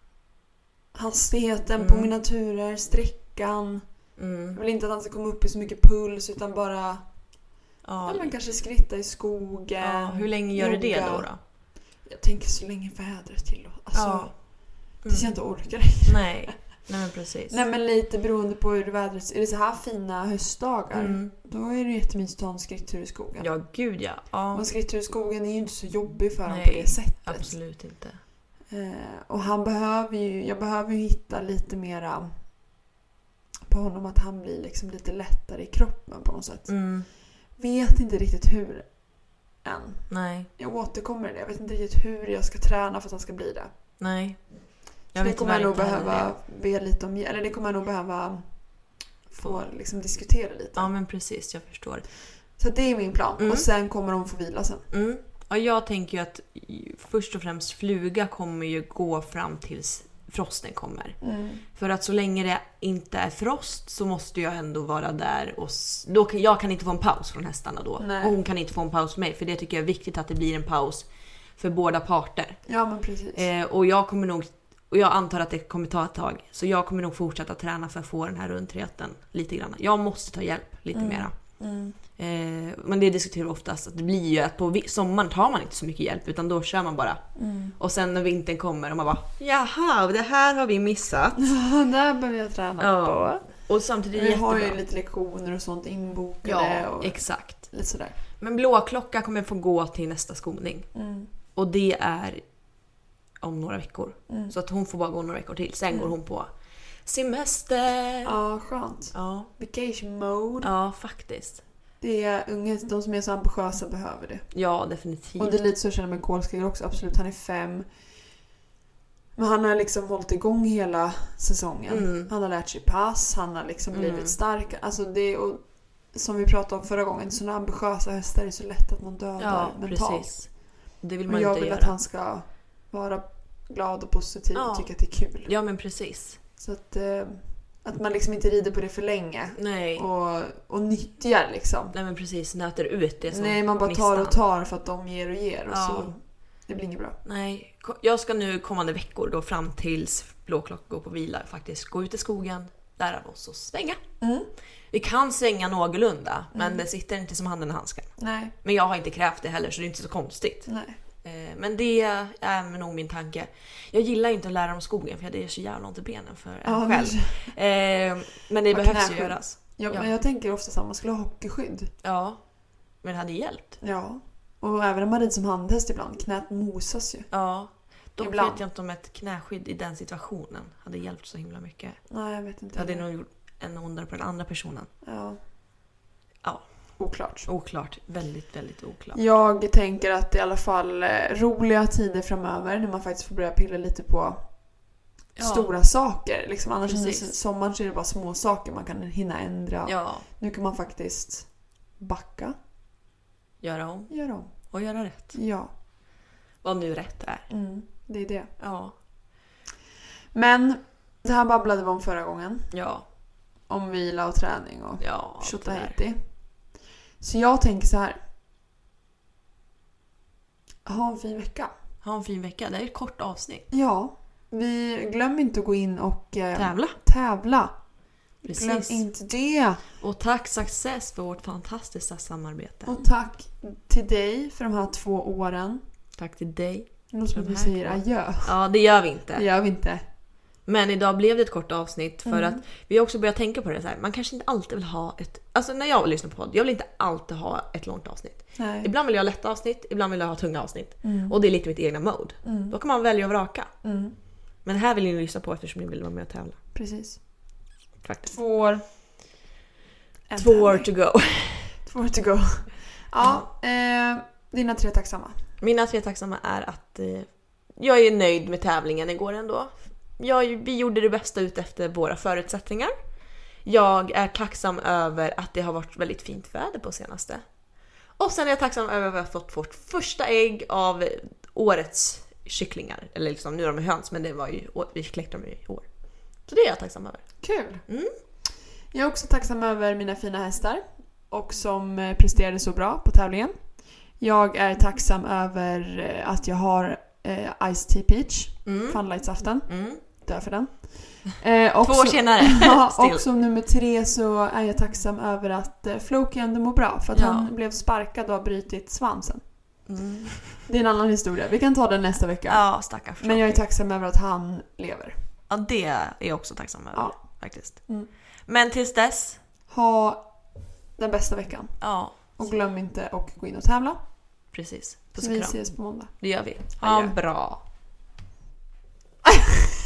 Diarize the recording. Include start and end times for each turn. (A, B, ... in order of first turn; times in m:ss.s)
0:00.9-0:07.3 A
0:01.8-0:02.1 B
0:04.2-0:04.6 B
0:07.8-0:08.3 B
0:08.0-0:16.7 A
0:09.8-0:11.4 B
0:13.9-0:15.3 B
0:16.0-0:17.6 B
0:17.5-0:23.5 A
0:20.9-0:21.3 B
0:23.4-0:24.6 B
0:24.5-0:27.6 A
0:26.5-0:28.2 B
0:28.7-0:32.4 A
0:33.7-0:43.7 A
0:36.7-0:37.1 B
0:40.1-0:40.5 B
0:44.0-0:46.3 B
0:45.1-0:50.9 A
0:49.4-0:49.7 B
0:50.8-0:52.0 B
0:52.6-0:54.8 A
0:53.4-0:53.6 B
0:54.9-1:01.2 B
1:01.2-1:01.6 A
1:01.7-1:12.7 B
1:08.0-1:08.3 A
1:12.6-1:13.4 A
1:13.3-1:31.4 B
1:20.9-1:22.0 A
1:27.4-1:27.8 A
1:31.4-1:33.5 A
1:32.8-1:34.8 B
1:34.1-1:38.2 A
1:36.4-1:37.7 B
1:38.4-1:40.9 B
1:40.9-1:41.3 A
1:41.5-1:42.4 B
1:43.4-1:46.5 B
1:47.0-1:48.4 B
1:48.2-1:50.7 A
1:49.1-1:49.5 B
1:50.6-1:51.6 B
1:52.0-1:54.5 A
1:54.5-1:55.6 B
1:55.4-1:58.0 A
1:59.4-2:10.7 A
2:01.9-2:02.3 B
2:03.9-2:04.4 B
2:09.4-2:12.0 B
2:11.3-2:15.5 A
2:14.5-2:16.4 B
2:16.6-2:21.9 A
2:19.6-2:20.0 B
2:21.9-2:24.4 B
2:23.3-2:27.2 A
2:25.7-2:26.1 B
2:27.2-2:34.0 B
2:34.2-2:34.5 A
2:34.9-2:50.1 B
2:36.5-2:36.8 A
2:38.2-2:38.5 A
2:40.6-2:41.0 A
2:46.6-2:47.5 A
2:48.7-2:51.9 A
2:52.0-2:53.8 B
2:53.8-2:57.3 A
2:57.3-3:02.2 B
2:58.2-2:58.6 A
3:02.1-3:03.1 A
3:02.7-3:04.9 B
3:05.0-3:05.4 A
3:06.4-3:09.2 B
3:07.0-3:07.5 A
3:09.1-3:22.6 A
3:15.4-3:15.7 B
3:16.8-3:17.3 B
3:19.8-3:20.2 B
3:23.6-3:25.4 B
3:24.1-3:25.7 A
3:26.6-3:27.5 B
3:27.5-3:28.5 A
3:28.6-3:29.0 B
3:30.3-3:32.8 A
3:32.7-3:33.0 B
3:33.7-3:38.2 A
3:35.0-3:36.0 B
3:40.8-3:41.7 A
3:42.0-3:43.7 B
3:43.7-3:47.9 A
3:46.5-3:47.0 B
3:48.4-3:49.8 A
3:48.4-3:49.0 B
3:50.0-3:53.0 B
3:52.8-3:55.8 A
3:56.2-3:59.4 B
3:57.1-3:58.8 A
3:59.3-4:00.0 A
4:00.6-4:13.7 B
4:02.2-4:02.6 A
4:08.5-4:08.9 A
4:11.0-4:11.3 A
4:12.4-4:12.8 A
4:13.8-4:14.2 A
4:14.6-4:16.6 B
4:16.7-4:17.2 A
4:18.0-4:18.4 B
4:18.3-4:18.8 A
4:20.3-4:21.1 A
4:20.4-4:21.8 B
4:21.8-4:25.4 A
4:23.2-4:23.5 B
4:25.6-4:32.9 B
4:33.6-4:37.4 B
4:38.1-4:48.1 B
4:47.4-4:47.8 A
4:48.8-5:09.4 A
4:58.6-5:00.0 B
5:01.8-5:03.2 B
5:07.1-5:07.5 B
5:09.8-5:10.6 B
5:10.6-5:15.2 A
5:12.5-5:13.6 B
5:15.5-5:19.4 B
5:16.9-5:18.1 A
5:19.7-5:24.0 A
5:21.8-5:22.5 B
5:24.5-5:27.6 B
5:25.2-5:26.1 A
5:26.7-5:27.2 A